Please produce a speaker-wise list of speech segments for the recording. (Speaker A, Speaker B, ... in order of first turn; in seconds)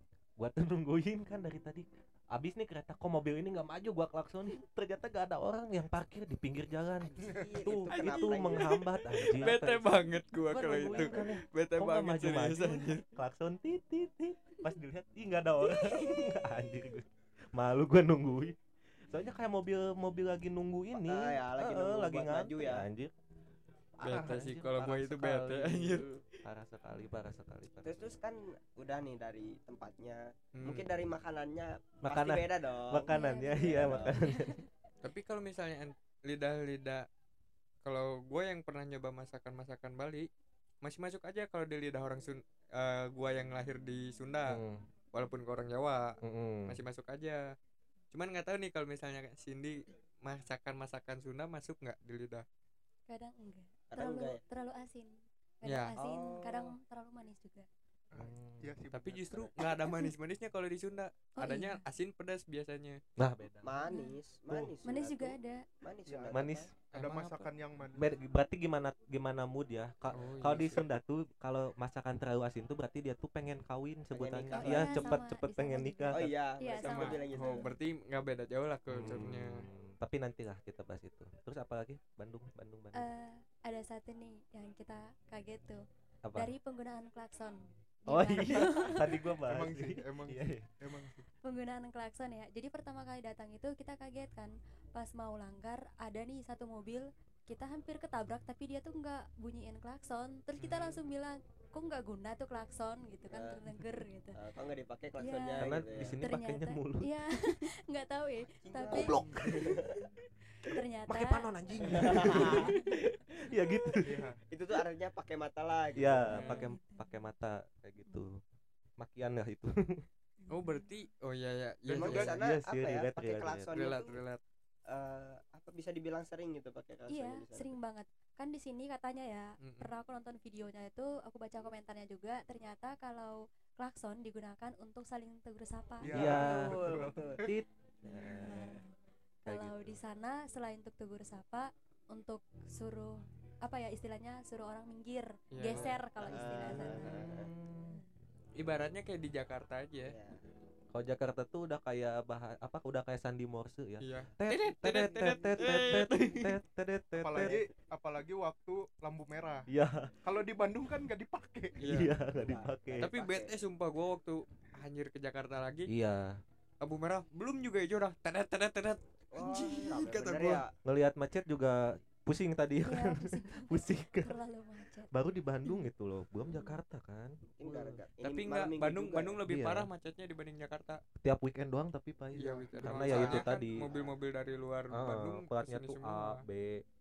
Speaker A: 0.4-9.9, 10.5-18.6, 19.1-23.1, 24.0-28.1, 32.0-34.6, 44.5-44.8, 46.2-46.8, 58.1-58.7, 63.2-63.7, 66.3-66.7, 68.0-76.3, 78.9-83.0, 86.2-86.5, 88.1-90.7, 105.6-107.6, 108.9-109.8, 111.1-114.3, 116.0-118.4, 119.0-120.0, 122.1-123.7, 136.1-138.7, 139.4-140.0, 146.2-148.0, 150.9-157.6, 159.7-160.1, 161.8-163.1, 165.9-166.4, 170.8-174.4, 175.1-178.0, 179.4-179.9, 181.2-183.9, 184.9-186.8
Speaker B: 7.2-9.7, 21.0-22.8, 25.9-26.2, 27.8-34.2, 53.9-54.4, 56.0-56.8, 63.6-66.7, 74.1-75.2, 76.1-77.7, 103.3-103.6, 104.3-106.2, 108.6-110.1, 111.8-112.8, 114.5-116.4, 121.9-124.2, 124.9-127.7, 136.1-137.5, 138.2-138.7, 146.2-147.5, 150.1-150.4, 157.3-157.6, 162.3-163.5, 169.3-170.7, 177.5-179.4, 182.9-184.2
Speaker C: 7.9-13.0, 24.0-26.1, 30.5-30.9, 35.0-37.1, 37.8-40.3, 40.8-44.6, 45.1-47.5, 48.1-52.5, 55.6-55.9, 58.9-63.0, 66.9-67.5, 70.1-70.8, 76.7-79.7, 100.6-101.0, 116.3-116.7, 120.5-122.3, 123.7-124.4, 129.6-129.9, 145.5-146.0, 148.5-150.2, 154.0-156.5, 161.8-162.1, 163.0-165.9, 166.8-170.6, 178.2-181.0, 182.3-186.4
Speaker D: 33.1-34.6, 53.1-57.7, 61.4-61.8, 63.9-64.2, 64.8-65.7, 74.5-77.7, 82.9-85.8, 86.3-89.3, 91.4-104.4, 105.2-109.7, 110.6-112.9, 116.3-117.1, 120.4-120.8, 127.1-136.4, 138.1-138.9, 139.4-148.1, 172.8-175.1
Speaker E: 58.1-59.5, 66.0-68.1, 89.4-91.3, 114.0-114.4, 121.9-122.3, 136.0-137.5, 157.2-159.7, 160.2-161.8, 182.8-183.1